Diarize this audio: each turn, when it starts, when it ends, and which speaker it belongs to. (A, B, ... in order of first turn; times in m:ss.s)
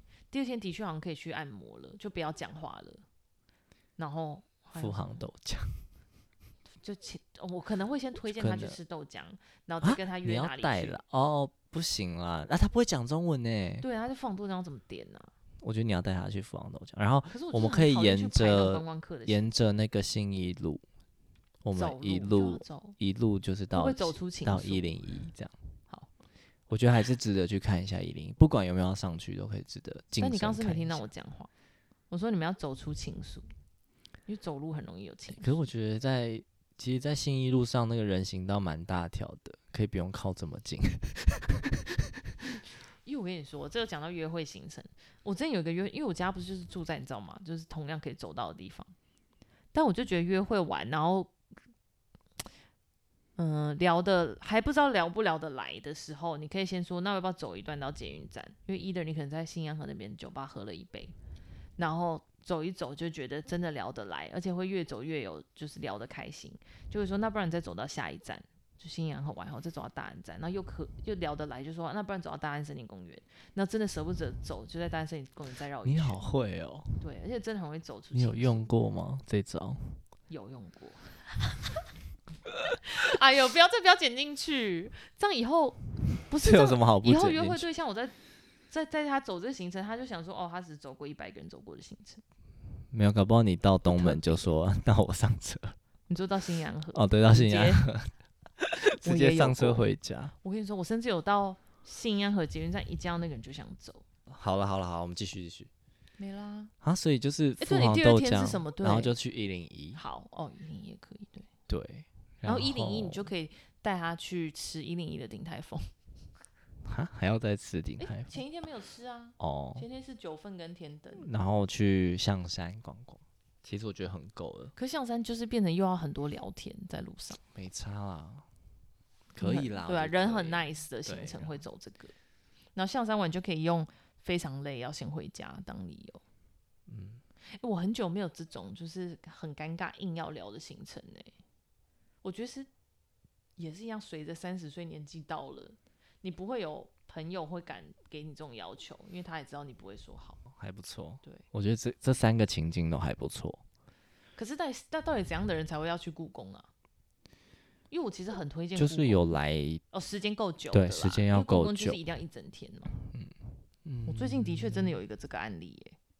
0:00.3-0:03.0 A
0:04.0-0:05.3 A
0:04.8-0:05.8 B
0:06.8-0:11.0 A
0:08.2-0:08.8 B
0:09.8-0:13.9 B
0:13.8-0:15.3 A
0:15.6-0:20.8 B
0:17.3-0:19.4 A
0:21.6-0:25.6 B
0:21.7-0:23.0 A
0:23.7-0:24.8 A
0:26.7-0:31.1 B
0:30.2-0:31.5 A
0:32.1-0:33.5 A
0:34.3-0:35.6 A
0:35.3-0:42.0 B
0:43.0-0:48.9 A
0:49.7-0:51.3 A
0:53.4-1:01.1 A
1:01.8-1:16.2 A
1:15.8-1:17.0 B
1:17.0-1:18.7 A
1:18.1-1:20.0 B
1:20.3-1:21.6 A
1:22.8-1:28.1 A
1:26.4-1:27.6 B
1:28.7-1:32.2 A
1:32.9-1:35.8 B
1:33.9-1:34.5 A
1:36.1-1:37.8 A
1:36.9-1:40.4 B
1:39.0-1:39.9 A
1:40.4-1:44.0 A
1:44.3-1:45.7 B
1:46.2-1:46.7 A
1:46.8-1:50.0 B
1:47.6-1:49.1 A
1:49.9-1:51.5 A
1:51.7-1:53.3 B
1:52.4-1:55.9 A
1:56.8-1:58.4 B
1:58.0-2:01.3 A
1:59.4-1:59.8 B
2:01.2-2:04.7 B
2:04.8-2:07.4 A
2:07.5-2:08.4 B
2:09.4-2:11.6 B
2:09.4-2:12.1 A
2:12.8-2:16.2 A
2:16.9-2:17.2 B
2:17.6-2:21.3 A
2:22.2-2:22.7 A
2:23.6-2:30.4 A
2:30.5-2:33.6 B
2:34.4-2:36.7 A
2:37.9-2:39.3 A
2:38.8-2:39.8 B
2:39.9-2:42.9 A
2:40.7-2:42.0 B
2:43.0-2:44.9 B
2:44.1-2:45.9 A